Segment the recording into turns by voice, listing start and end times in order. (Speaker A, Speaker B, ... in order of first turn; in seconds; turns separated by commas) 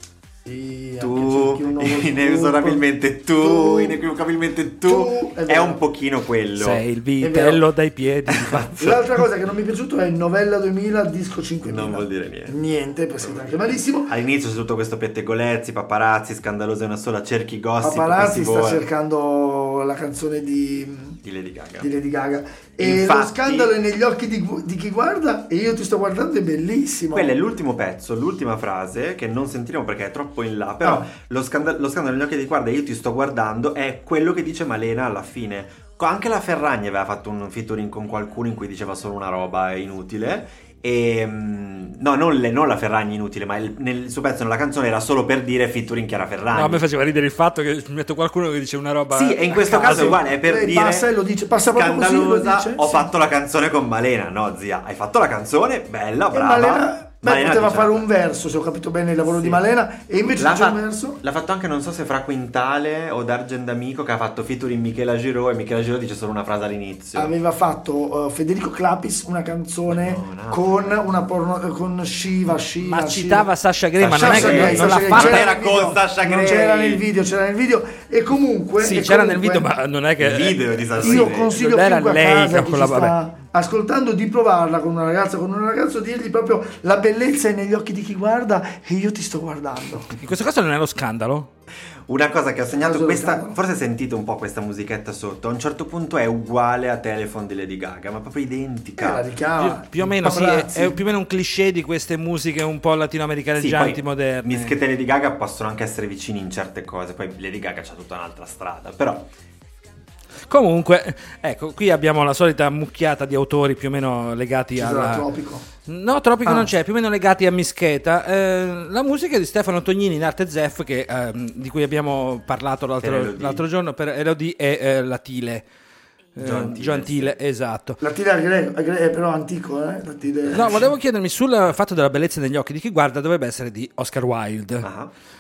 Speaker A: 0.5-2.9, Speaker B: 1.0-6.8, Speaker A: 3.4-4.0, Speaker A: 4.8-5.8, Speaker C: 6.6-8.8, Speaker A: 7.2-7.7, Speaker B: 8.3-9.0, Speaker A: 8.8-14.1, Speaker B: 11.6-12.6, Speaker B: 13.2-18.8, Speaker A: 17.8-21.2, Speaker B: 21.2-21.9, Speaker A: 21.8-27.3, Speaker B: 22.8-23.7, Speaker B: 27.1-46.8, Speaker A: 30.8-31.1, Speaker C: 46.5-50.2, Speaker B: 49.1-51.1, Speaker A: 49.8-53.1, Speaker B: 51.7-58.0, Speaker A: 56.3-61.2, Speaker B: 59.3-59.6, Speaker B: 60.4-67.3, Speaker A: 67.2-73.5, Speaker B: 69.9-71.0, Speaker C: 72.8-75.5, Speaker B: 74.0-77.0, Speaker A: 74.1-79.7, Speaker C: 78.8-83.2, Speaker B: 80.2-81.6, Speaker A: 81.0-90.1, Speaker C: 90.2-91.5, Speaker B: 92.1-99.2, Speaker A: 92.7-93.6, Speaker A: 99.0-101.0, Speaker C: 99.6-104.8, Speaker B: 103.6-109.3, Speaker C: 110.5-115.3, Speaker A: 114.8-115.7, Speaker C: 115.9-125.7, Speaker B: 123.0-123.6, Speaker C: 126.4-128.0, Speaker B: 126.4-127.3, Speaker A: 128.0-130.9, Speaker C: 130.5-134.9, Speaker B: 134.8-135.1